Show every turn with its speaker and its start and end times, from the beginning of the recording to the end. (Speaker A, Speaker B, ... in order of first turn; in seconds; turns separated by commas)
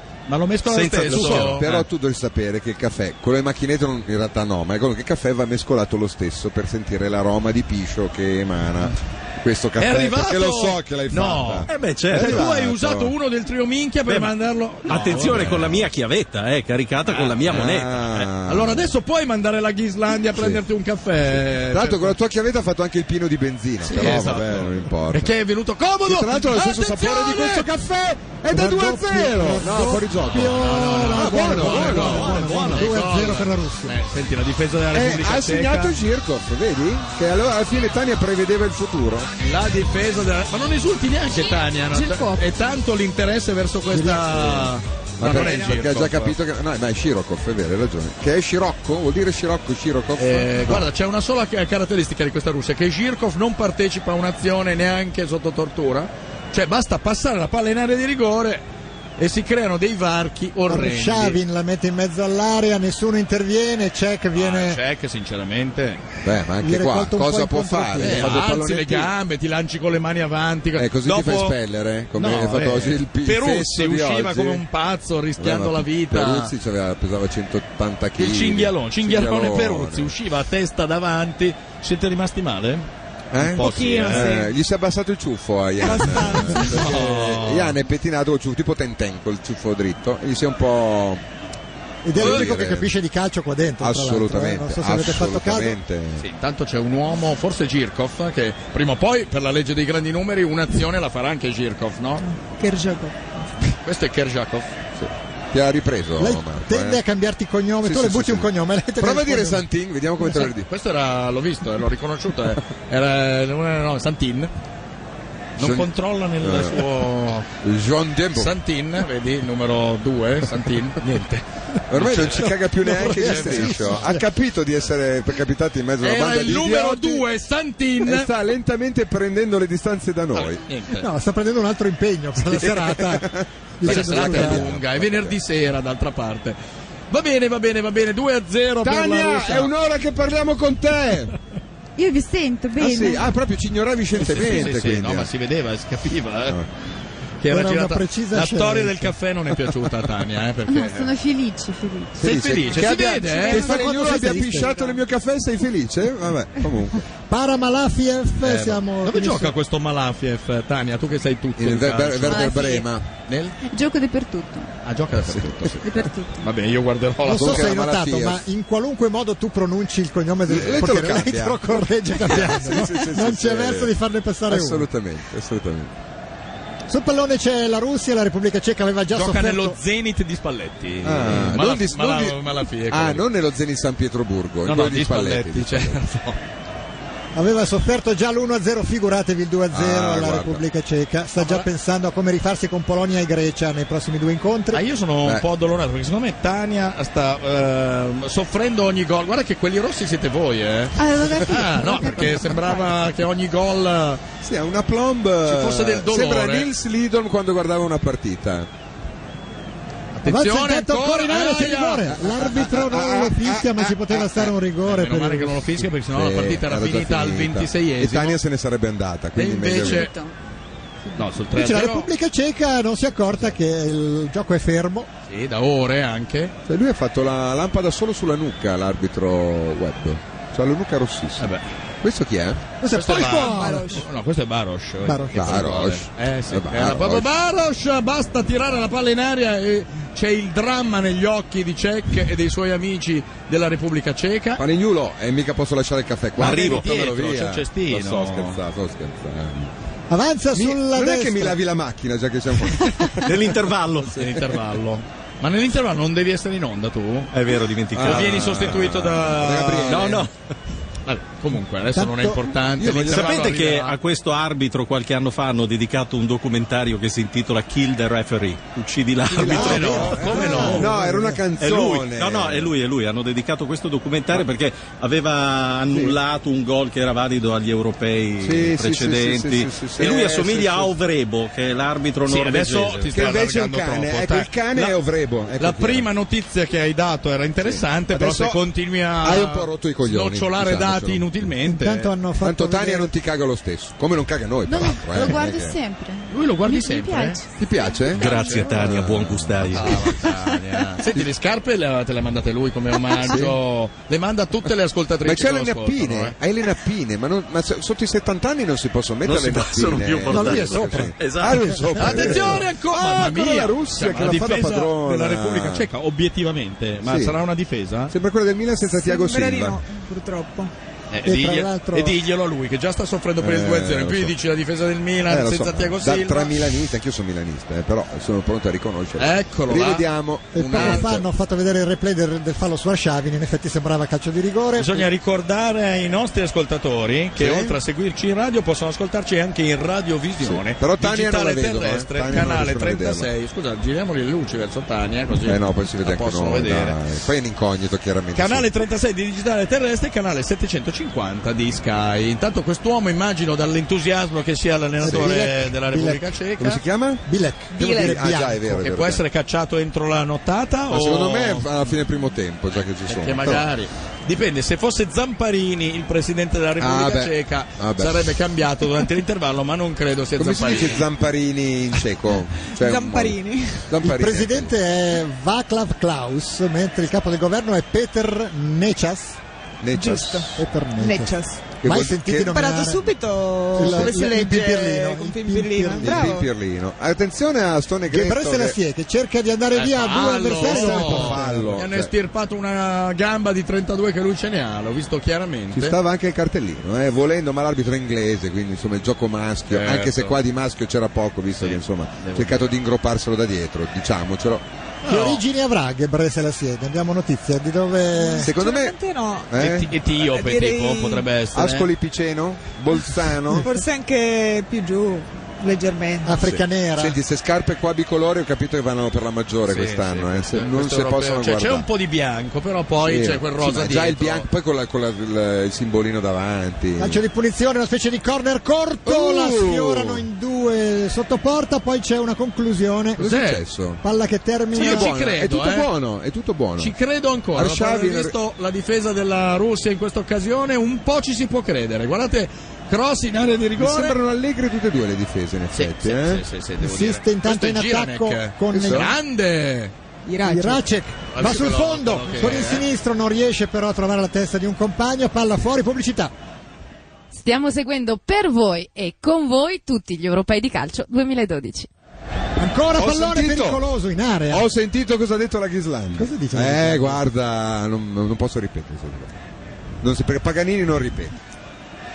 Speaker A: 0.3-1.9, Speaker B: 0.7-1.7, Speaker C: 1.0-13.1, Speaker A: 9.8-15.6, Speaker B: 11.7-12.5, Speaker B: 14.1-14.3, Speaker B: 14.9-18.2, Speaker C: 15.2-15.8, Speaker A: 17.1-17.6, Speaker C: 17.4-18.9, Speaker A: 18.4-22.2, Speaker C: 20.3-20.6, Speaker C: 21.7-25.3, Speaker A: 23.8-27.7, Speaker C: 26.1-32.7, Speaker D: 28.5-34.0, Speaker A: 30.4-36.0, Speaker B: 32.0-32.8, Speaker C: 34.9-39.3, Speaker A: 39.4-46.4, Speaker E: 41.9-42.5, Speaker D: 43.9-44.5, Speaker C: 45.2-50.9, Speaker A: 50.2-58.6, Speaker A: 59.2-61.4, Speaker D: 60.7-64.8, Speaker A: 64.3-66.0, Speaker C: 66.2-69.1, Speaker D: 66.6-68.5, Speaker A: 68.0-71.6, Speaker C: 70.8-74.6, Speaker A: 72.2-76.5, Speaker C: 75.4-80.1, Speaker A: 78.2-84.4, Speaker C: 83.3-91.2, Speaker F: 84.0-84.5, Speaker F: 85.8-86.7, Speaker A: 86.2-87.8, Speaker D: 92.0-95.8, Speaker C: 92.1-92.9, Speaker A: 92.2-92.5, Speaker C: 93.8-96.2, Speaker A: 96.2-102.3, Speaker F: 102.2-103.6, Speaker A: 103.8-104.8, Speaker C: 105.0-107.0, Speaker D: 106.2-109.7, Speaker C: 107.8-110.7, Speaker A: 110.4-114.5, Speaker A: 115.6-117.5, Speaker C: 115.6-115.9, Speaker C: 116.4-116.8, Speaker C: 117.6-118.5, Speaker A: 118.3-124.1, Speaker C: 121.9-127.3, Speaker D: 122.8-124.2, Speaker A: 126.0-128.3, Speaker C: 128.0-130.6, Speaker A: 130.3-131.1, Speaker D: 130.9-134.7, Speaker C: 132.4-135.4, Speaker A: 133.8-136.6, Speaker A: 137.1-139.7, Speaker C: 138.8-141.4, Speaker E: 142.0-143.3, Speaker C: 142.8-145.3, Speaker A: 144.2-146.6, Speaker A: 147.4-151.2, Speaker D: 147.5-149.2, Speaker E: 150.7-152.3, Speaker C: 152.2-157.1, Speaker A: 152.2-153.8, Speaker E: 152.8-154.4, Speaker D: 153.4-154.8, Speaker D: 157.3-159.6, Speaker A: 158.4-162.7, Speaker C: 161.6-163.1, Speaker E: 162.3-162.9, Speaker A: 163.3-163.6, Speaker E: 163.6-164.7, Speaker A: 164.8-167.8, Speaker C: 165.3-165.7, Speaker E: 165.8-166.5, Speaker D: 167.2-174.9, Speaker C: 167.3-168.4, Speaker C: 170.5-173.9, Speaker C: 174.5-175.9, Speaker D: 176.9-179.8, Speaker A: 179.1-183.3, Speaker C: 181.0-186.0, Speaker A: 184.7-186.4, Speaker D: 187.3-194.8, Speaker C: 189.7-190.6, Speaker A: 191.4-191.7, Speaker A: 194.7-204.2, Speaker E: 201.0-202.7, Speaker C: 204.4-208.7, Speaker A: 205.4-206.7, Speaker A: 210.1-212.2, Speaker D: 210.2-215.7, Speaker C: 212.1-214.5, Speaker A: 214.9-218.4, Speaker C: 216.1-220.1, Speaker A: 219.3-220.1, Speaker E: 219.8-220.3, Speaker A: 221.1-222.1, Speaker D: 221.5-225.1, Speaker A: 225.3-226.6, Speaker C: 226.7-231.5, Speaker A: 231.4-231.7, Speaker C: 232.0-232.7, Speaker D: 232.8-234.0, Speaker A: 232.9-244.6, Speaker F: 233.2-234.0, Speaker D: 235.0-235.6, Speaker C: 235.3-237.3, Speaker C: 244.6-249.7, Speaker A: 246.4-248.6, Speaker B: 246.4-246.9, Speaker D: 250.1-251.6, Speaker C: 250.5-253.5, Speaker B: 253.2-254.2, Speaker A: 254.1-257.3, Speaker B: 257.3-258.9, Speaker C: 257.9-260.2, Speaker A: 258.0-260.3, Speaker B: 259.8-260.3, Speaker A: 261.1-264.0, Speaker D: 261.9-262.4, Speaker C: 262.8-263.5, Speaker B: 263.1-270.8, Speaker C: 269.3-272.7, Speaker A: 269.4-270.9, Speaker D: 269.7-271.4, Speaker B: 271.6-283.1, Speaker C: 275.9-276.2, Speaker C: 278.4-280.9, Speaker A: 282.2-285.0, Speaker C: 283.1-286.1, Speaker A: 285.6-292.1, Speaker C: 287.6-288.6, Speaker C: 289.2-291.4, Speaker D: 291.6-293.1, Speaker C: 292.4-295.8, Speaker E: 294.7-298.9, Speaker A: 296.3-297.4, Speaker C: 297.6-300.1, Speaker B: 298.1-300.2, Speaker A: 298.2-298.8, Speaker A: 299.7-306.4, Speaker C: 303.2-303.6, Speaker C: 305.2-315.9, Speaker B: 309.2-312.3, Speaker D: 310.3-311.1, Speaker D: 311.7-312.1, Speaker A: 311.9-318.1, Speaker C: 317.0-317.4, Speaker C: 318.1-319.8, Speaker F: 318.9-320.7, Speaker A: 321.1-326.6, Speaker D: 321.2-322.2, Speaker C: 323.4-324.3, Speaker C: 325.3-331.2, Speaker A: 329.2-331.2, Speaker D: 330.5-335.1, Speaker A: 334.8-347.0, Speaker C: 337.4-337.8, Speaker C: 340.4-343.3, Speaker C: 345.4-348.7, Speaker A: 348.3-356.8, Speaker D: 355.0-356.2, Speaker C: 356.6-357.2, Speaker D: 357.3-358.8, Speaker C: 357.8-359.2, Speaker A: 357.9-358.2, Speaker A: 358.7-361.7, Speaker C: 360.9-363.7, Speaker A: 363.1-371.1, Speaker C: 366.8-368.4, Speaker C: 370.4-374.7, Speaker F: 372.7-373.9, Speaker D: 374.0-379.4, Speaker C: 379.8-380.5, Speaker F: 379.9-381.7, Speaker D: 380.6-383.0, Speaker C: 381.8-382.6, Speaker F: 382.4-386.5, Speaker D: 383.7-386.4, Speaker C: 383.8-384.2, Speaker C: 386.0-388.8, Speaker D: 388.1-391.8, Speaker A: 389.7-396.0, Speaker C: 390.2-392.1, Speaker C: 395.7-404.6, Speaker A: 399.7-400.4, Speaker A: 401.6-402.7, Speaker A: 405.0-405.4, Speaker D: 405.1-408.5, Speaker F: 408.2-409.5, Speaker C: 408.4-409.0, Speaker C: 409.5-409.9, Speaker A: 409.6-411.9, Speaker F: 410.2-411.3, Speaker C: 411.5-413.7, Speaker F: 413.6-416.4, Speaker D: 416.2-417.2, Speaker C: 416.4-421.9, Speaker A: 419.7-424.5, Speaker C: 423.0-427.2, Speaker D: 427.0-433.2, Speaker C: 429.1-430.2, Speaker C: 433.2-434.0, Speaker A: 433.2-433.6, Speaker D: 434.0-435.1, Speaker C: 434.7-436.9, Speaker A: 434.7-435.9, Speaker A: 436.8-444.2, Speaker C: 437.6-438.3, Speaker C: 443.8-446.4, Speaker A: 445.7-449.9, Speaker D: 446.8-449.1, Speaker C: 448.7-449.1, Speaker F: 450.3-450.9, Speaker D: 450.4-456.3, Speaker A: 451.3-452.9, Speaker G: 457.3-461.9, Speaker D: 462.6-464.7, Speaker C: 462.9-463.8, Speaker C: 464.5-469.4, Speaker D: 466.2-467.2, Speaker C: 470.0-471.4